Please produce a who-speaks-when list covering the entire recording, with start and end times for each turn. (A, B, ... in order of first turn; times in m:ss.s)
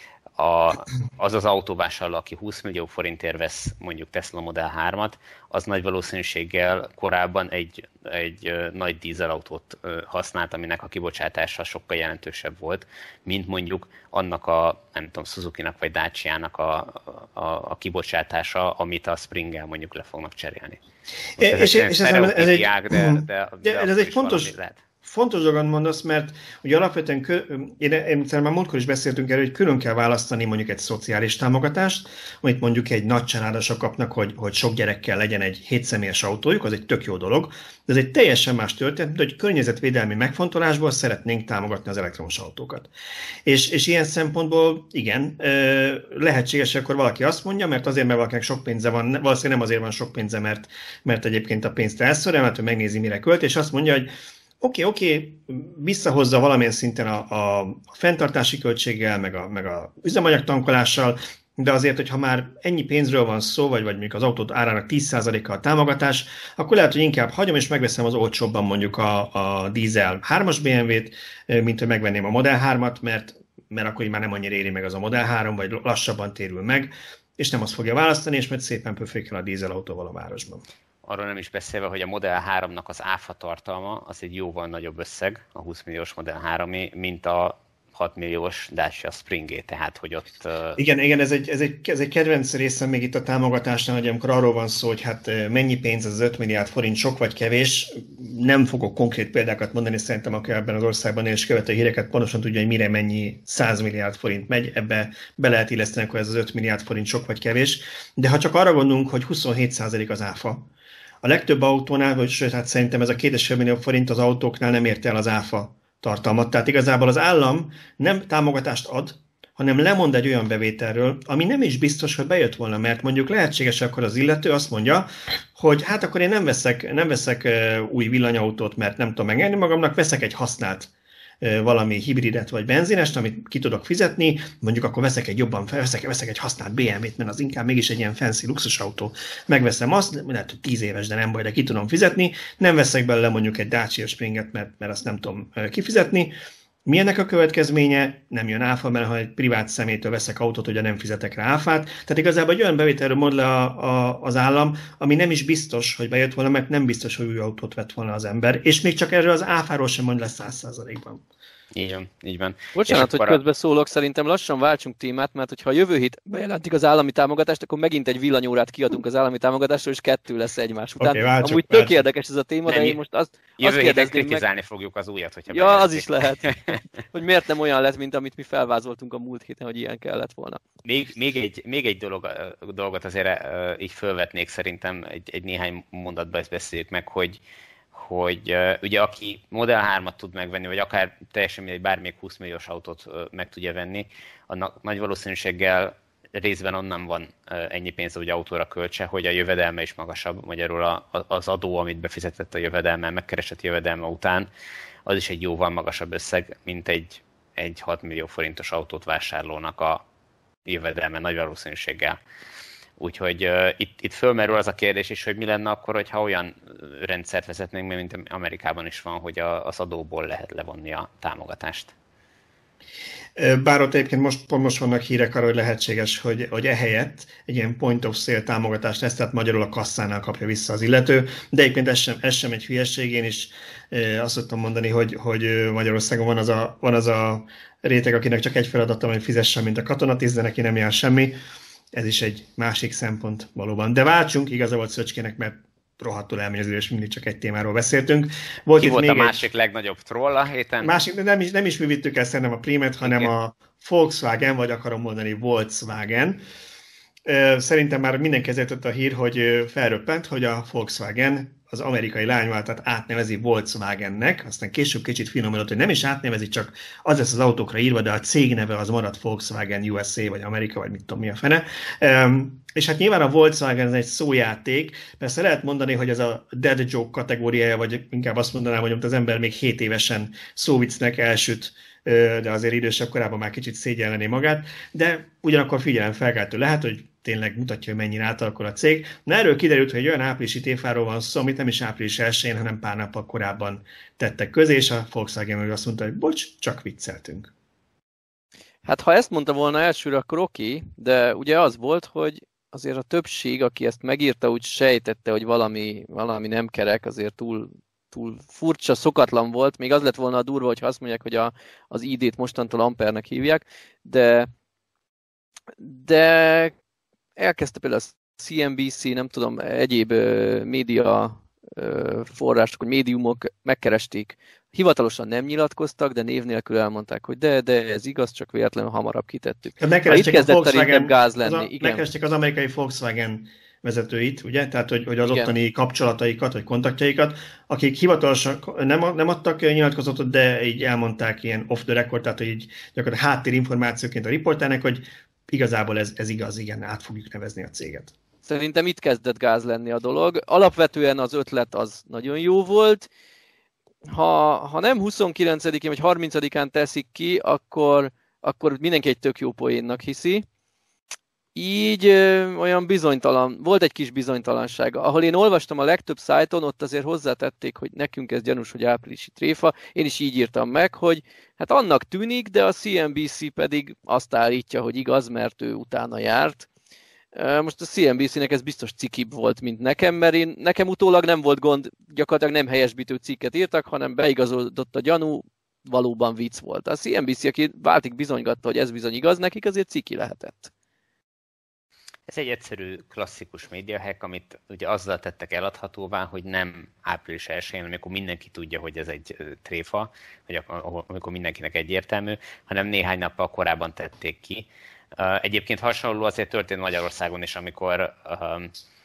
0:00.4-0:20.8 A
0:21.4-0:42.9 B
0:21.4-0:24.8 A
0:43.5-1:20.6 B
1:21.0-1:30.8 A
1:30.8-1:50.7 B
1:51.2-2:10.9 B
2:11.4-2:26.3 B
2:26.9-2:41.2 B
2:41.7-2:43.4 A
2:42.8-2:54.4 C
2:51.0-2:52.0 B
2:52.7-2:53.0 A
2:53.6-2:56.8 A
2:55.5-2:56.6 C
2:57.1-3:00.6 C
3:00.8-3:07.4 A
3:07.9-3:24.5 A
3:25.1-3:30.0 A
3:30.7-3:32.2 A
3:33.0-3:41.9 A
3:43.4-4:01.4 B
4:01.9-4:09.5 B
4:08.8-4:10.9 A
4:10.8-4:16.4 B
4:13.0-4:13.3 A
4:17.3-4:57.5 B
4:58.8-5:14.5 C
5:15.8-5:16.7 C
5:17.4-5:32.0 C
5:29.8-5:48.1 B
5:48.4-5:53.1 C
5:54.0-6:00.5 C
6:01.6-6:16.7 C
6:17.4-6:30.7 C
6:32.3-6:48.7 A